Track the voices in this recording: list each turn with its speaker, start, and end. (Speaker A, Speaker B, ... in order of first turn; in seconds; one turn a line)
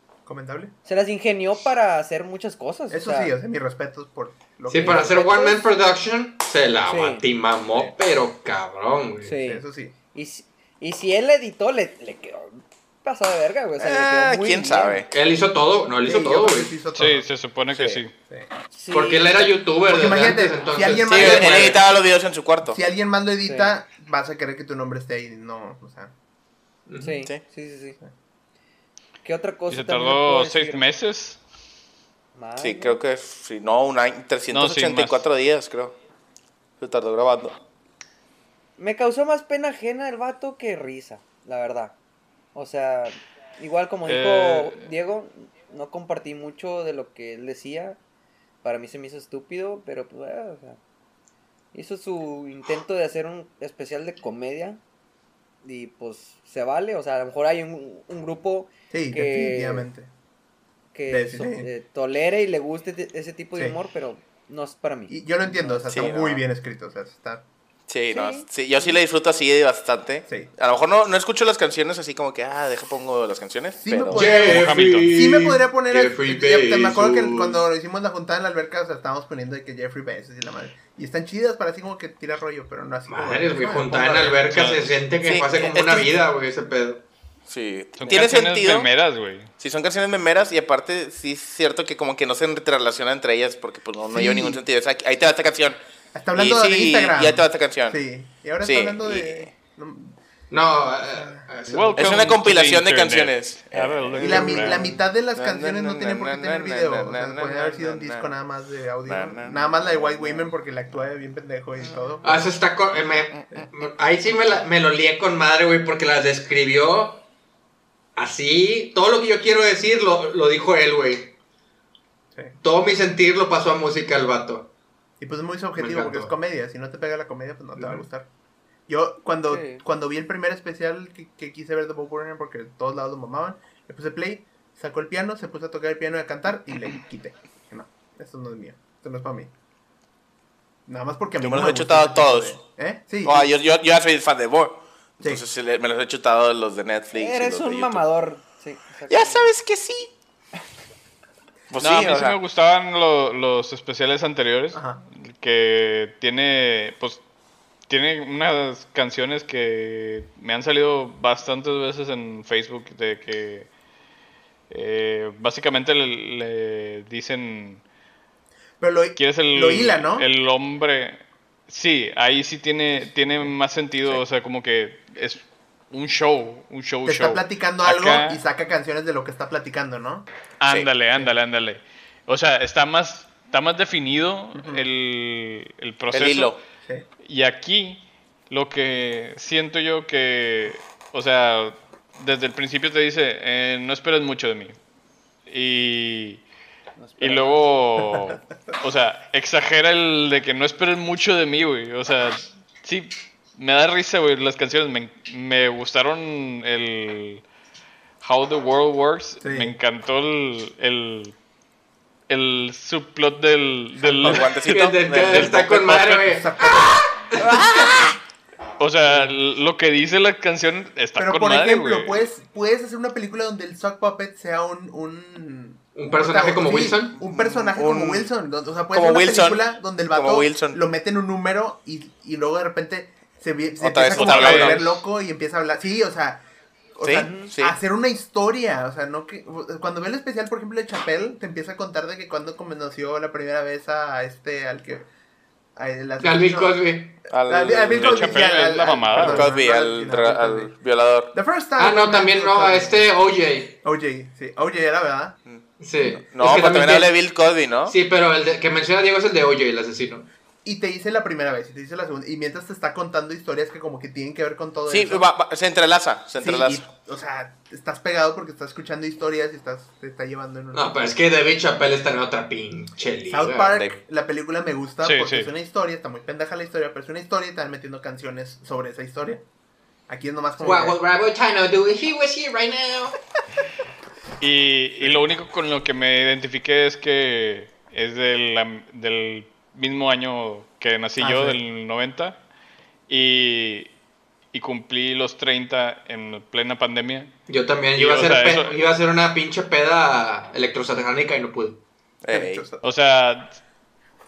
Speaker A: 0.2-0.7
Speaker B: 0.8-3.3
Speaker A: 2.9-5.5
Speaker C: 4.7-9.3
Speaker B: 4.8-5.6
Speaker B: 6.8-7.2
Speaker B: 9.2-15.1
Speaker A: 9.4-9.9
Speaker D: 13.8-15.1
Speaker C: 15.1-16.7
Speaker A: 16.0-17.3
Speaker E: 16.9-18.1
Speaker D: 17.7-18.0
Speaker B: 18.7-19.5
Speaker C: 18.9-21.8
Speaker A: 19.9-21.8
Speaker D: 21.1-22.8
Speaker A: 22.6-26.1
Speaker B: 23.4-23.7
Speaker C: 26.9-27.1
Speaker B: 27.0-28.0
Speaker B: 29.2-30.9
Speaker E: 29.7-31.4
Speaker B: 32.3-33.0
Speaker D: 32.6-36.0
Speaker E: 34.5-35.2
Speaker D: 36.8-37.6
Speaker B: 38.8-42.0
Speaker B: 42.5-48.0
Speaker E: 44.0-44.9
Speaker B: 48.6-50.8
Speaker B: 51.7-54.8
Speaker B: 55.6-59.9
Speaker A: 58.9-60.1
Speaker B: 60.9-66.1
Speaker A: 61.1-61.7
Speaker A: 65.1-67.4
Speaker D: 65.9-66.4
Speaker D: 67.9-74.4
Speaker B: 68.1-68.5
Speaker A: 70.3-70.5
Speaker A: 73.8-84.4
Speaker C: 74.1-77.6
Speaker E: 74.3-75.1
Speaker C: 83.1-87.0
Speaker E: 84.5-85.0
Speaker D: 85.2-86.1
Speaker D: 87.5-88.9
Speaker E: 88.0-89.5
Speaker D: 89.6-95.8
Speaker A: 94.1-94.6
Speaker A: 96.1-100.2
Speaker D: 96.3-98.0
Speaker D: 98.6-99.5
Speaker C: 100.5-102.0
Speaker A: 101.2-101.5
Speaker E: 101.7-105.0
Speaker D: 102.0-104.8
Speaker A: 104.2-112.4
Speaker D: 105.3-108.3
Speaker D: 109.0-110.5
Speaker C: 112.2-117.2
Speaker C: 118.2-121.3
Speaker C: 122.6-124.7
Speaker A: 125.2-128.3
Speaker C: 125.8-126.3
Speaker C: 127.8-128.0
Speaker A: 128.9-139.5
Speaker B: 129.5-129.8
Speaker A: 140.8-143.5
Speaker D: 141.4-142.6
Speaker D: 143.2-148.0
Speaker B: 147.1-149.5
Speaker D: 149.1-150.1
Speaker D: 151.7-152.4
Speaker E: 151.8-157.2
Speaker A: 154.7-155.0
Speaker E: 157.9-163.7
Speaker E: 164.7-167.8
Speaker A: 168.8-170.3
Speaker E: 169.2-178.4
Speaker A: 177.0-180.2
Speaker E: 180.6-186.6
Speaker A: 184.5-184.9
Speaker D: 186.1-186.6
Speaker E: 187.2-194.8
Speaker E: 195.5-196.4
Speaker B: 197.0-197.6
Speaker E: 197.2-207.4
Speaker E: 208.2-211.3
Speaker A: 209.4-209.7
Speaker E: 212.3-216.4
Speaker A: 213.9-214.5
Speaker D: 214.2-215.5
Speaker C: 214.6-217.6
Speaker A: 216.2-217.1
Speaker D: 217.4-218.2
Speaker E: 218.8-222.3
Speaker A: 219.1-219.3
Speaker A: 221.2-236.4
Speaker C: 225.9-227.2
Speaker D: 227.2-228.3
Speaker D: 228.9-230.8
Speaker D: 233.8-234.8
Speaker E: 234.1-234.9
Speaker A: 236.9-245.1
Speaker D: 237.0-237.7
Speaker B: 237.2-237.5
Speaker A: 245.8-250.7
Speaker C: 246.2-247.2
Speaker D: 247.3-248.5
Speaker E: 247.9-249.5
Speaker D: 249.1-251.3
Speaker A: 251.3-253.0
Speaker C: 251.8-253.8
Speaker A: 253.8-255.4
Speaker C: 255.8-257.1
Speaker D: 256.2-257.9
Speaker C: 257.9-260.3
Speaker A: 260.6-265.3
Speaker D: 264.9-266.8
Speaker A: 266.4-270.9
Speaker C: 270.7-273.9
Speaker A: 273.3-279.4
Speaker E: 275.0-275.5
Speaker A: 280.1-281.0
Speaker C: 280.6-283.1
Speaker E: 284.4-292.4
Speaker A: 291.2-291.6
Speaker E: 293.1-293.9
Speaker E: 294.5-297.3
Speaker C: 297.5-301.8
Speaker E: 297.9-298.8
Speaker D: 302.2-302.7
Speaker A: 302.3-302.8
Speaker E: 302.8-303.6